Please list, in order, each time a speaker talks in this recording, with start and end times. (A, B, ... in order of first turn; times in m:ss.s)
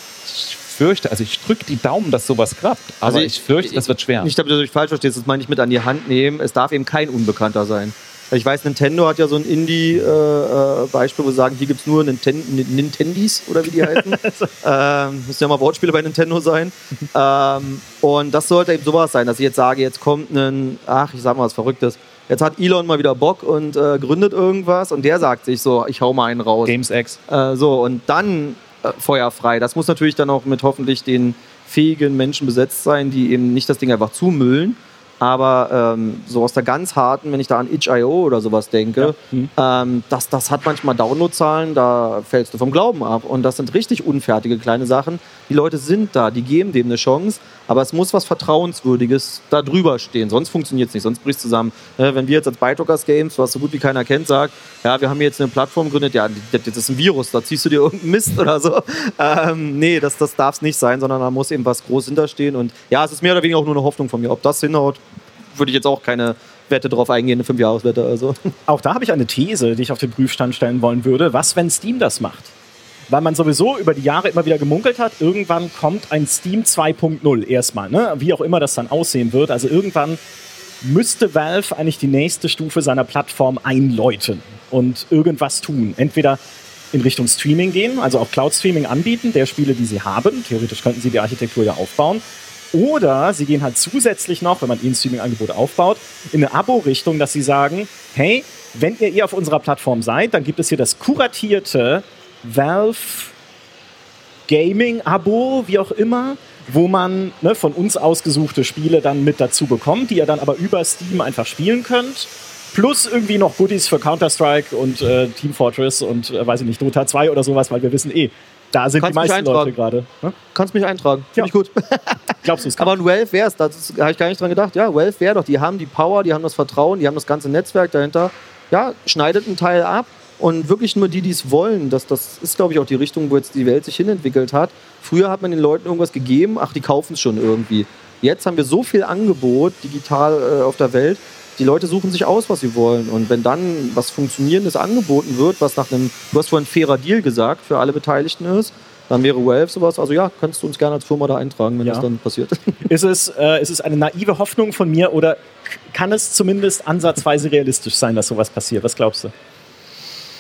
0:00.2-0:04.3 A
0:03.0-0:26.8 B
0:13.8-0:14.5 C
0:26.6-0:27.2 A
0:27.3-1:05.0 B
0:39.0-0:39.5 C
1:05.5-1:08.5 B
1:08.7-1:12.5 C
1:13.1-1:20.2 C
1:20.8-1:26.4 C
1:26.9-1:32.2 C
1:32.7-1:43.3 C
1:44.5-2:00.4 C
1:59.0-1:59.7 B
2:00.5-2:32.8 B
2:02.4-2:02.9 C
2:32.9-2:39.3 C